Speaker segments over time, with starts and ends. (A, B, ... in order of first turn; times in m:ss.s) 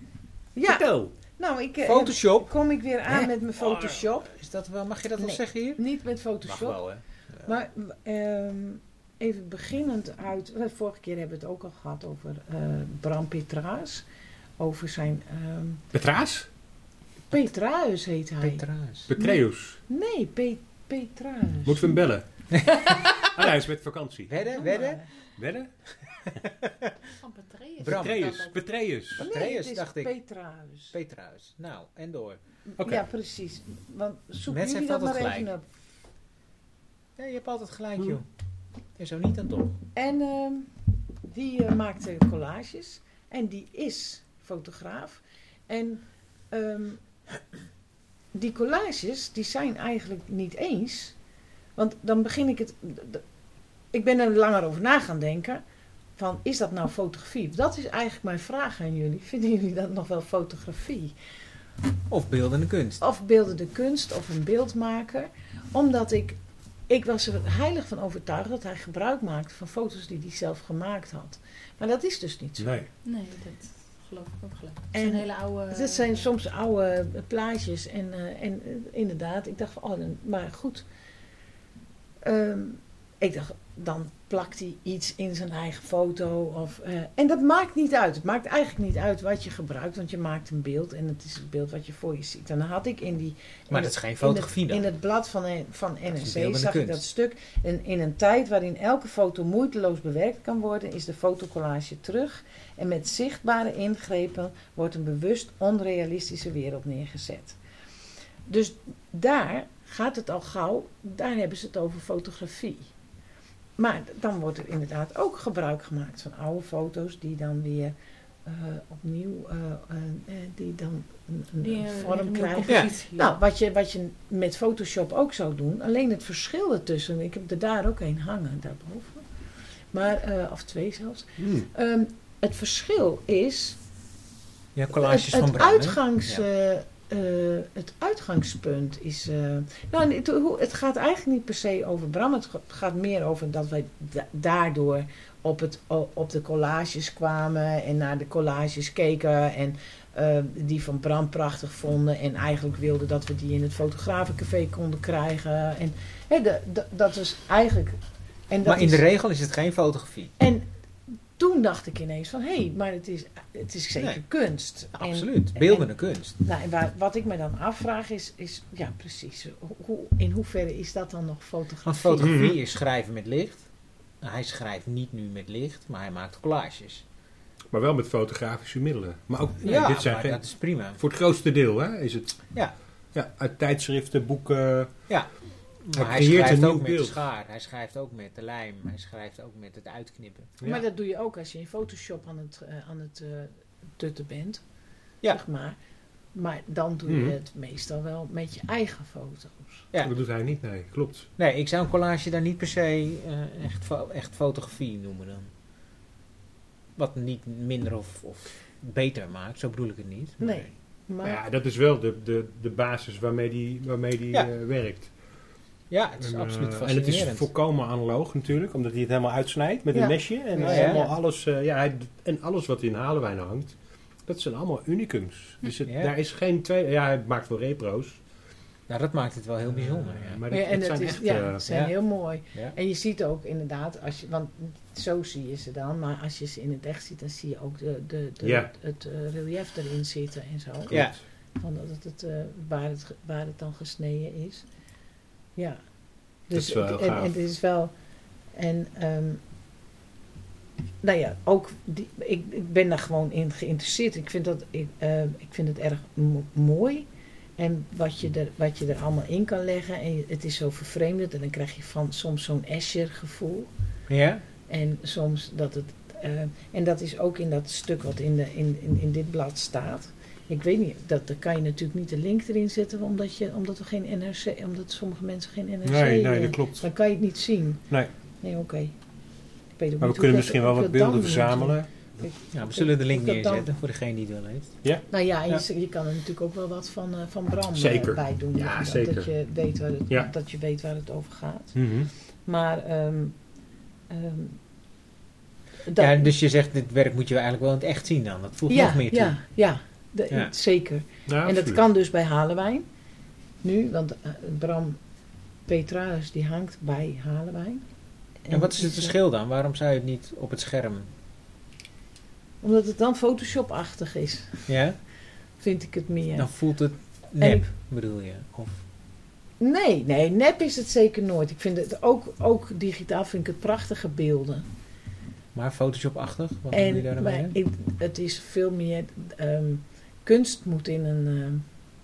0:00.6-0:04.3 A
0:00.6-0:01.1 B
0:01.8-0:02.5 C
0:03.0-0:05.8 C
0:05.2-0:06.8 A
0:06.4-0:07.5 C
0:07.4-0:14.0 A
0:14.6-0:15.8 A
0:15.9-0:16.5 B
0:17.3-0:18.6 A
0:18.4-0:19.1 C
0:19.1-0:19.8 B
0:19.2-0:22.0 A
0:21.6-0:24.5 B
0:22.5-0:23.3 C
0:24.3-0:25.0 C
0:24.5-0:25.1 A
0:25.4-0:25.7 B
0:26.3-0:27.0 C
0:27.2-0:28.6 D
0:27.8-0:28.4 C
0:27.8-0:29.3 B
0:29.2-0:30.1 C
0:29.2-0:30.9 A
0:30.9-0:32.4 C
0:32.7-0:35.6 A
0:34.5-0:35.5 C
0:37.2-0:38.2 C
0:39.0-0:39.8 C
0:39.9-0:47.0 A
0:48.3-0:51.1 A
0:51.8-0:53.2 A
0:53.9-0:55.6 A
0:56.2-1:01.1 A
1:02.1-1:03.0 C
1:03.0-1:12.8 A
1:12.6-1:12.9 B
1:13.0-1:16.3 D
1:14.9-1:20.8 A
1:22.2-1:47.6 A
1:33.7-1:34.9 C
1:36.1-1:37.0 C
1:48.4-1:52.9 A
1:53.8-1:57.9 A
1:58.4-2:09.2 A
2:01.6-2:03.3 D
2:09.9-2:13.8 A
2:11.4-2:11.7 B
2:14.8-2:16.4 C
2:14.9-2:38.0 A
2:38.5-2:39.0 A
2:38.6-2:40.3 C
2:40.4-2:45.9 A
2:44.9-2:46.4 C
2:46.4-2:52.3 A
2:51.8-2:53.6 C
2:52.2-2:52.6 B
2:54.2-2:57.0 C
2:57.7-3:00.4 B
2:59.6-3:01.0 C
3:01.0-3:02.4 B
3:03.1-3:04.9 B
3:05.1-3:10.6 C
3:05.9-3:07.2 B
3:10.6-3:14.6 A
3:15.2-3:15.8 A
3:16.3-3:19.8 A
3:17.1-3:17.3 B
3:20.0-3:21.3 B
3:21.4-3:25.5 C
3:27.0-3:30.7 C
3:30.4-3:31.4 A
3:31.2-3:35.1 B
3:35.9-3:37.5 C
3:36.2-3:48.2 B
3:39.9-3:41.1 A
3:40.6-3:41.0 C
3:45.8-3:46.1 C
3:48.9-3:50.4 C
3:49.7-3:51.7 B
3:50.5-4:01.0 A
3:58.4-3:58.7 B
4:00.9-4:01.2 C
4:01.6-4:04.6 A
4:06.5-4:07.9 A
4:06.5-4:07.3 B
4:08.5-4:09.4 A
4:11.0-4:23.7 A
4:24.1-4:24.4 C
4:24.7-4:37.8 A
4:35.8-4:36.8 B
4:38.4-4:38.9 A
4:39.8-4:43.7 A
4:40.0-4:41.9 B
4:42.5-4:44.8 C
4:45.1-4:51.8 A
4:47.8-4:49.3 B
4:51.7-4:52.1 B
4:52.4-4:53.4 A
4:54.1-4:54.6 A
4:55.8-4:56.3 A
4:56.0-4:59.4 C
4:58.7-5:02.8 A
5:01.3-5:01.8 B
5:03.6-5:05.0 A
5:05.7-5:07.8 A
5:08.4-5:09.1 A
5:08.5-5:11.1 C
5:12.6-5:14.7 A
5:14.7-5:15.0 C
5:15.6-5:16.5 A
5:16.4-5:18.8 C
5:17.4-5:17.6 A
5:19.6-5:24.7 A
5:25.5-5:27.6 C
5:26.7-5:31.6 A